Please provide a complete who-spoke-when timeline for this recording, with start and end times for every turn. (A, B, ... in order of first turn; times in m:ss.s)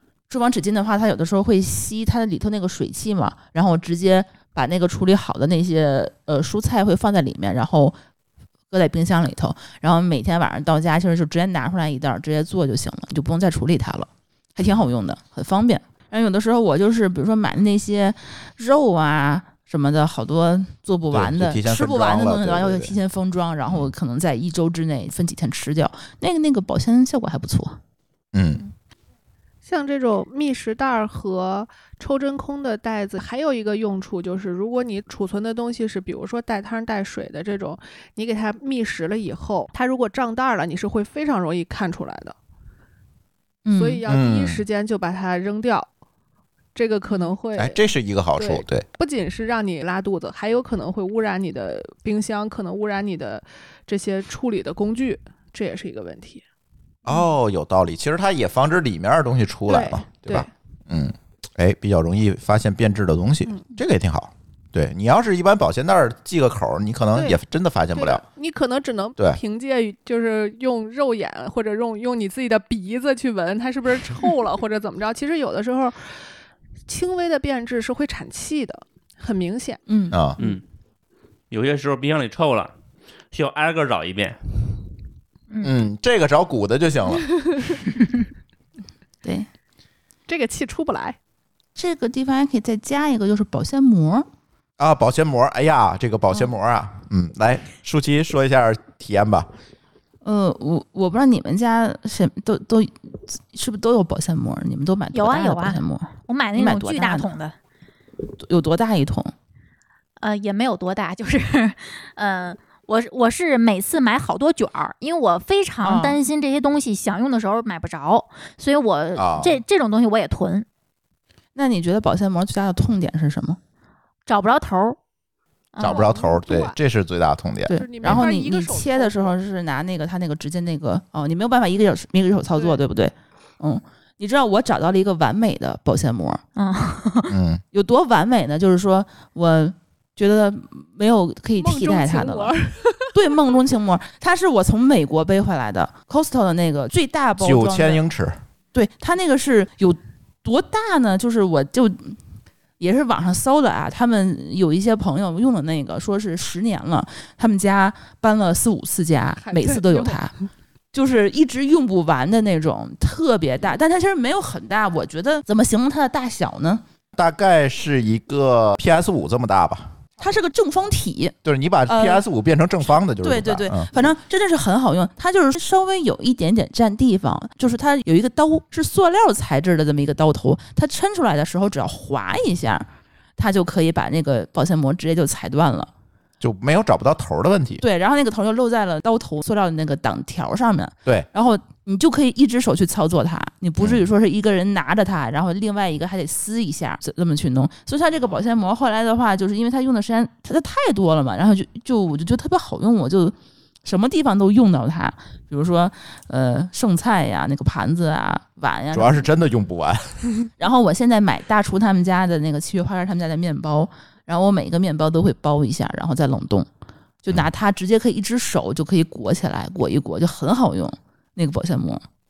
0:00.3-0:08.0 A
0:08.7-0:27.8 A
0:21.1-0:23.0 B
0:28.3-0:28.6 B
0:29.6-0:42.4 C
0:43.6-0:44.0 A
0:43.7-0:45.9 C
0:44.1-0:44.6 B
0:46.8-0:47.8 C
0:47.6-0:48.8 B
0:48.4-0:56.4 C
0:57.1-1:08.2 B
0:59.7-1:00.5 C
1:08.0-1:16.2 C
1:16.9-1:19.8 C
1:19.9-1:20.2 A
1:20.1-1:20.4 B
1:21.5-1:22.7 D
1:23.3-1:24.4 D
1:25.6-1:27.2 B
1:27.2-1:27.8 C
1:30.3-1:31.2 C
1:31.8-1:34.3 A
1:34.8-1:39.5 B
1:40.2-1:47.3 A
1:45.1-1:47.6 E
1:48.2-1:49.3 A
1:50.2-2:00.7 E
1:55.8-1:56.2 A
1:59.2-1:59.6 B
2:01.6-2:03.6 A
2:04.3-2:05.0 E
2:05.7-2:06.1 E
2:05.8-2:08.3 B
2:05.8-2:06.8 C
2:07.7-2:16.4 A
2:07.7-2:09.4 C
2:12.6-2:12.8 C
2:16.6-2:17.4 E
2:17.3-2:17.6 B
2:17.7-2:22.6 A
2:21.6-2:23.2 C
2:23.1-2:28.0 A
2:27.4-2:28.4 B
2:28.7-2:32.2 A
2:32.8-2:40.3 A
2:39.4-2:40.2 C
2:40.9-2:46.8 A
2:47.2-2:50.0 B
2:50.2-2:51.4 A
2:51.4-2:53.9 B
2:51.9-2:52.2 A
2:53.2-3:05.9 A
3:06.4-3:07.8 B
3:07.8-3:29.3 A
3:28.9-3:30.2 B
3:30.6-3:36.7 A
3:37.2-3:42.0 A